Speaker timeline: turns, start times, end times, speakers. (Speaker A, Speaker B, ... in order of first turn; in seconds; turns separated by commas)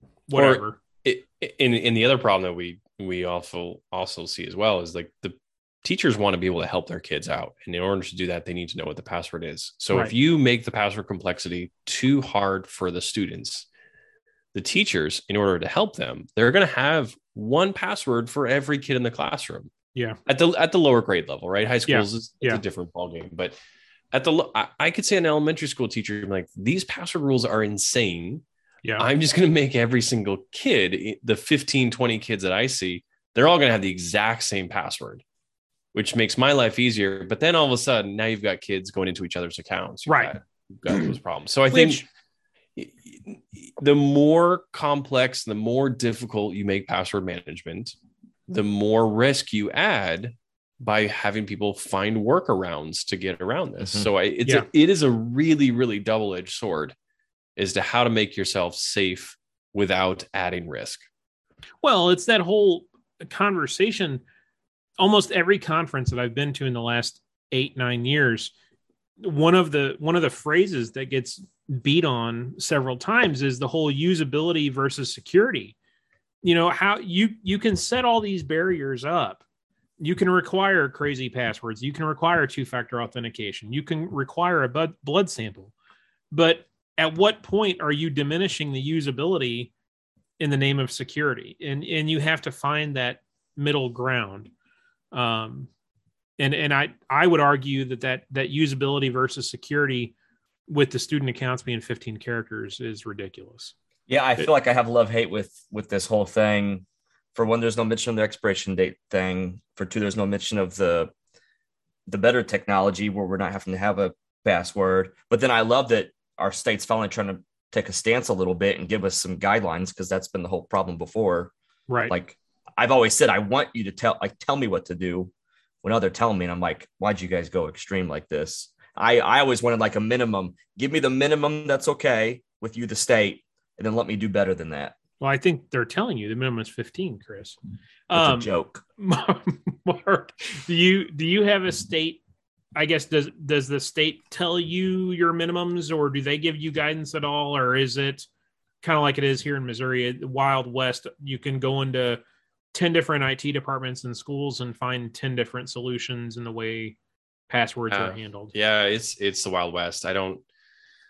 Speaker A: 0.3-0.8, Speaker B: 0.3-13.7, Speaker B: 14.5-19.7, Speaker B: 20.3-23.6, Speaker A: 21.9-22.6, Speaker B: 24.1-28.4, Speaker B: 29.0-35.2, Speaker B: 35.9-42.0, Speaker A: 40.1-40.4, Speaker A: 41.7-42.0, Speaker B: 42.8-48.0, Speaker B: 48.5-57.0, Speaker C: 53.8-54.1, Speaker B: 57.6-61.1, Speaker A: 61.8-64.2, Speaker A: 65.0-68.5, Speaker A: 69.2-75.8, Speaker A: 76.4-79.4, Speaker A: 80.0-85.7, Speaker A: 86.3-89.7, Speaker A: 90.4-94.5, Speaker A: 95.1-95.7, Speaker A: 96.4-100.1, Speaker A: 100.7-103.7, Speaker C: 104.1-111.1, Speaker C: 112.1-121.5, Speaker A: 121.9-122.1, Speaker C: 122.1-125.3, Speaker C: 125.8-134.9, Speaker A: 135.2-137.6, Speaker A: 138.1-142.2, Speaker C: 138.1-138.8, Speaker A: 142.8-148.3, Speaker A: 148.8-152.2, Speaker A: 152.7-157.0, Speaker A: 157.5-158.5, Speaker B: 157.9-160.4